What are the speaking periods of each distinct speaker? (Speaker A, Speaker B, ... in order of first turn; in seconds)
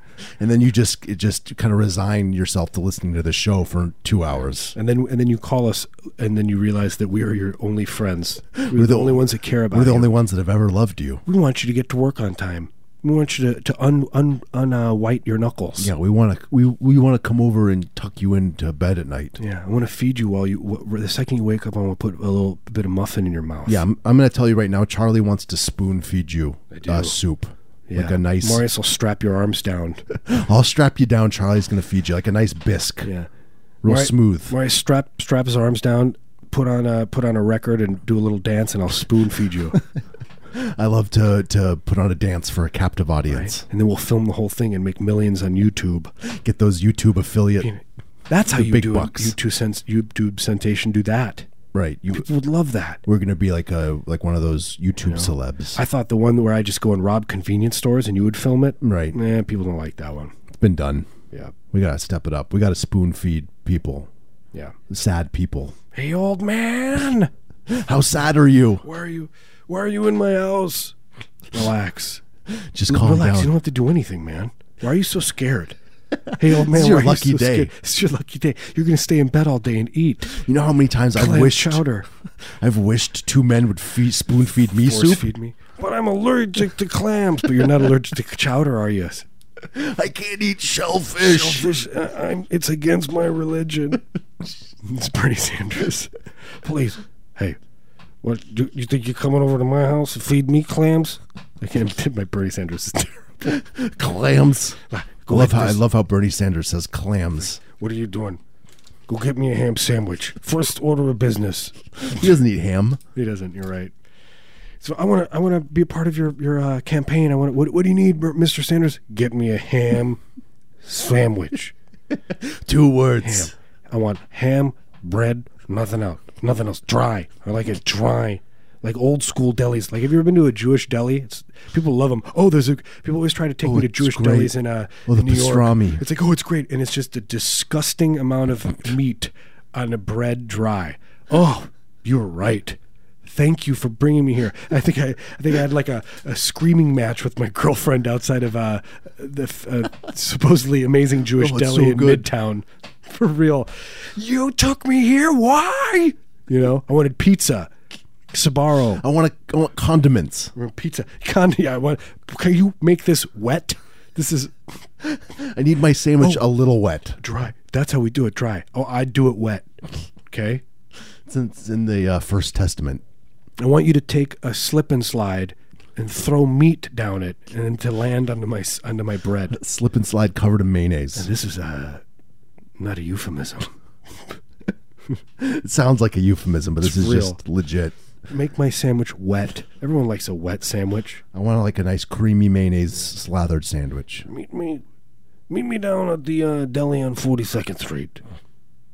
Speaker A: 0.3-4.8, 8.6-11.2, 15.8-19.4, 23.7-28.6, 30.1-33.1, 33.8-34.6, 40.5-43.6, 46.2-47.7, 48.5-49.4, 51.7-52.3, 53.1-55.8, 58.8-59.2, 60.5-61.1, 61.7-64.1, 64.9-65.8, 67.7-68.8, 72.5-73.5, 76.4-77.7, 80.3-81.8, 82.4-85.3, 89.7-91.9, 103.5-107.6, 112.0-113.0, 122.3-123.5, 133.6-136.0, 151.3-152.3, 159.0-160.5, 165.0-167.2, 171.3-173.0, 179.5-181.3, 185.4-187.9, 191.3-194.3
Speaker B: 4.7-10.1, 11.3-15.9, 19.4-23.8, 26.7-27.2, 27.9-30.1, 33.0-33.3, 33.9-39.8, 43.3-46.1, 47.6-51.5, 52.1-53.0, 55.0-60.4, 65.9-67.3, 68.8-71.0, 71.5-72.2, 72.9-75.8, 76.3-80.4, 81.2-82.1, 84.7-89.3, 91.2-94.0, 94.8-97.6, 98.2-103.6, 104.9-105.8, 107.6-108.4, 109.1-112.2, 113.1-113.9, 114.8-120.2, 120.8-121.8, 123.2-157.7, 158.3-159.0, 160.6-164.7, 166.2-166.5, 167.2-169.7, 170.3-170.6, 173.6-179.6, 181.2-182.0, 182.8-183.8, 186.8-187.4, 188.3-191.2, 194.2-194.8, 195.5-198.2